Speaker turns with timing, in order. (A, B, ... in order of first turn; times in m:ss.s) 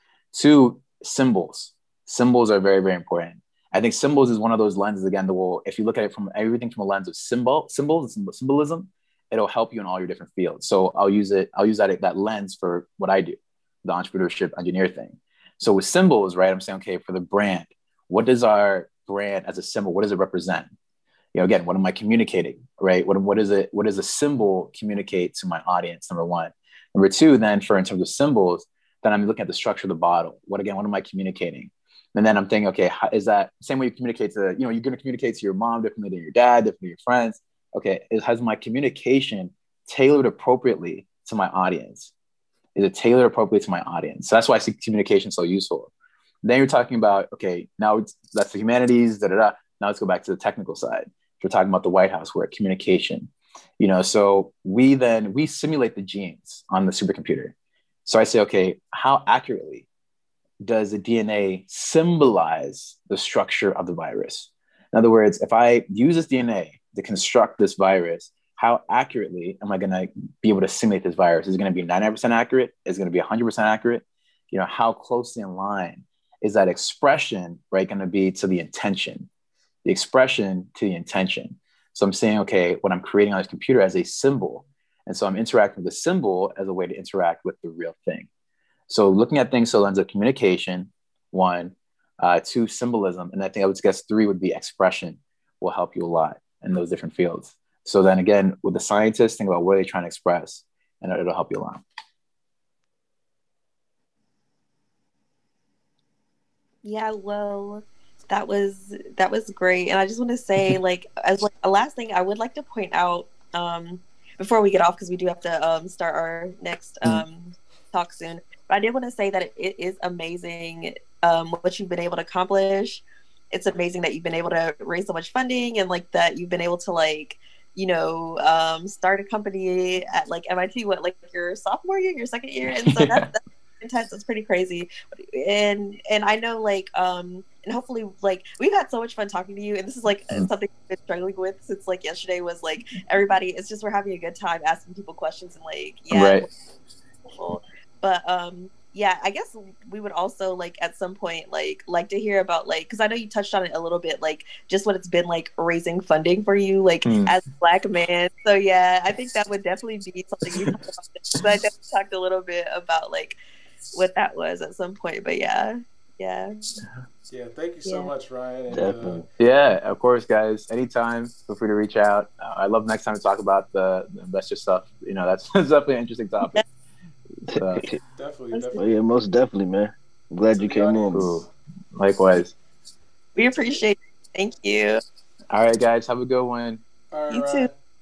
0:00.3-0:20.7 A
0:21.3-0:42.1 A
0:42.8-0:45.9 A
0:46.4-0:57.5 A
0:58.0-0:59.9 A
1:00.6-1:19.3 A
1:19.8-1:28.3 A
1:28.9-1:41.8 A
1:46.8-2:26.5 B
2:12.7-2:13.3 A
2:26.1-2:26.5 A
2:27.3-2:43.4 B
2:37.0-2:37.3 A
2:43.9-2:46.6 B
2:47.3-2:49.2 C
2:47.8-2:48.1 B
2:48.7-2:49.2 D
2:49.4-2:56.6 A
2:57.5-2:57.9 A
2:57.7-2:58.0 D
2:58.2-2:58.9 C
2:58.5-2:58.8 B
2:58.8-3:01.3 D
3:00.5-3:01.5 C
3:01.1-3:02.6 A
3:03.4-3:05.0 B
3:05.5-3:06.8 A
3:07.1-3:07.7 C
3:07.3-3:07.7 B